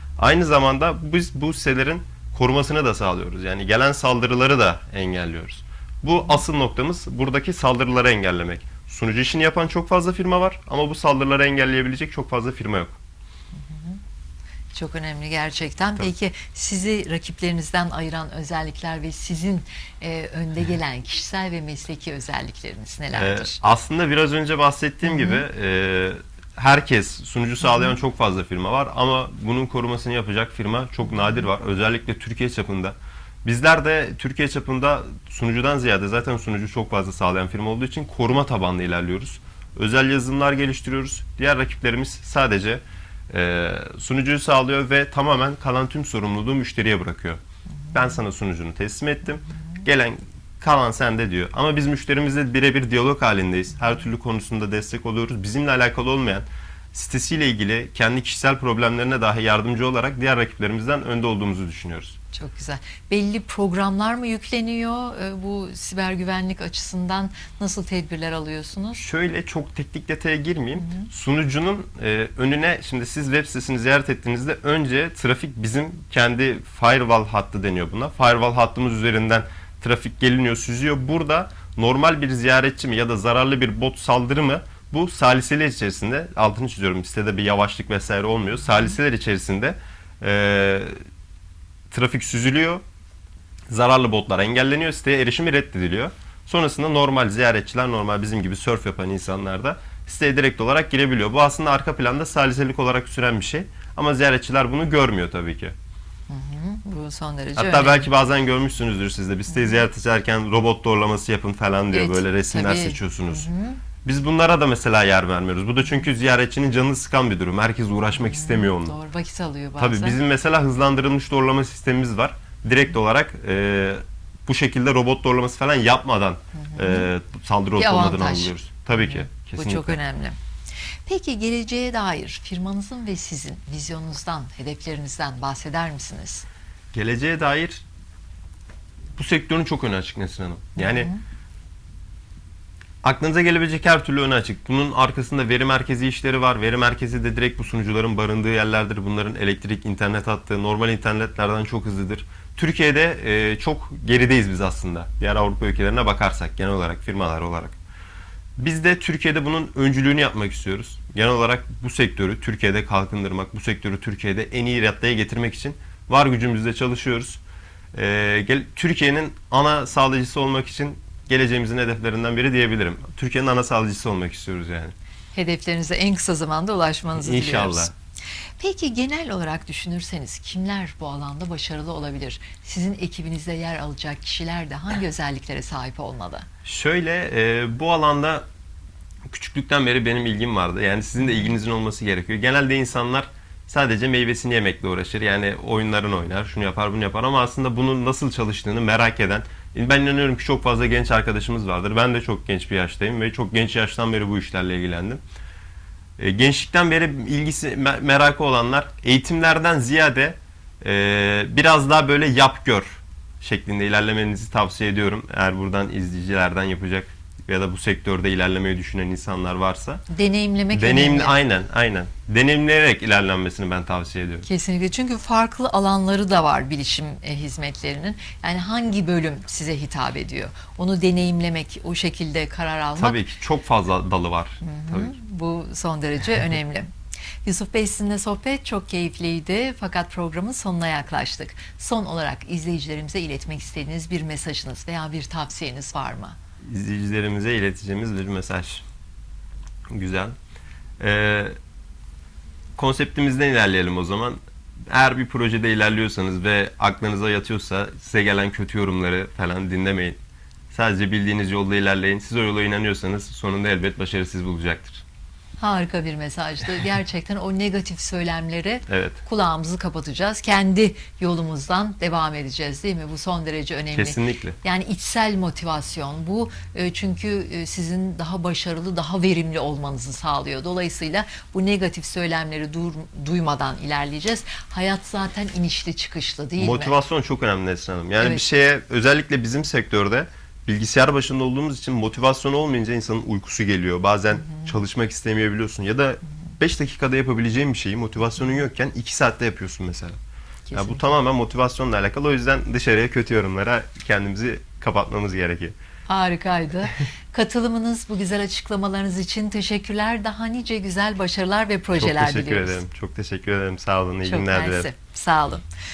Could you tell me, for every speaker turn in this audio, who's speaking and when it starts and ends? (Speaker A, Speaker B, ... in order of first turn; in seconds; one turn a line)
Speaker A: 0.2-13.0
Speaker B: 13.7-14.0
Speaker B: 14.7-23.6
Speaker A: 23.1-47.4
Speaker B: 25.1-25.4
Speaker A: 47.9-62.2
Speaker B: 62.3-69.0
Speaker A: 68.9-90.9
Speaker A: 91.9-92.8
Speaker A: 93.7-105.7
Speaker B: 106.3-108.1
Speaker A: 107.5-113.5
Speaker B: 111.9-113.8
Speaker A: 114.0-119.0
Speaker B: 118.2-120.2
Speaker A: 119.8-130.0
Speaker B: 126.7-127.0
Speaker B: 127.8-130.4
Speaker B: 131.1-136.4
Speaker A: 136.9-137.8
Speaker A: 139.2-141.1
Speaker B: 140.8-141.2
Speaker A: 143.0-157.7
Speaker A: 158.6-167.4
Speaker A: 167.9-174.9
Speaker B: 175.3-177.9
Speaker A: 177.2-177.9
Speaker B: 178.6-186.5
Speaker A: 186.6-188.4
Speaker A: 189.3-205.2
Speaker A: 206.2-220.0
Speaker B: 220.1-221.3
Speaker A: 220.7-224.5
Speaker B: 224.4-233.2
Speaker A: 233.0-235.1
Speaker B: 234.6-236.9
Speaker B: 237.4-246.3
Speaker A: 246.7-248.8
Speaker A: 249.9-250.3
Speaker A: 251.0-251.5
Speaker A: 252.8-260.2
Speaker A: 260.7-265.0
Speaker B: 265.6-286.9
Speaker A: 268.9-269.2
Speaker A: 273.9-274.6
Speaker A: 286.6-300.1
Speaker B: 300.7-301.0
Speaker A: 300.7-305.7
Speaker B: 306.1-312.8
Speaker A: 311.9-314.9
Speaker B: 314.2-315.6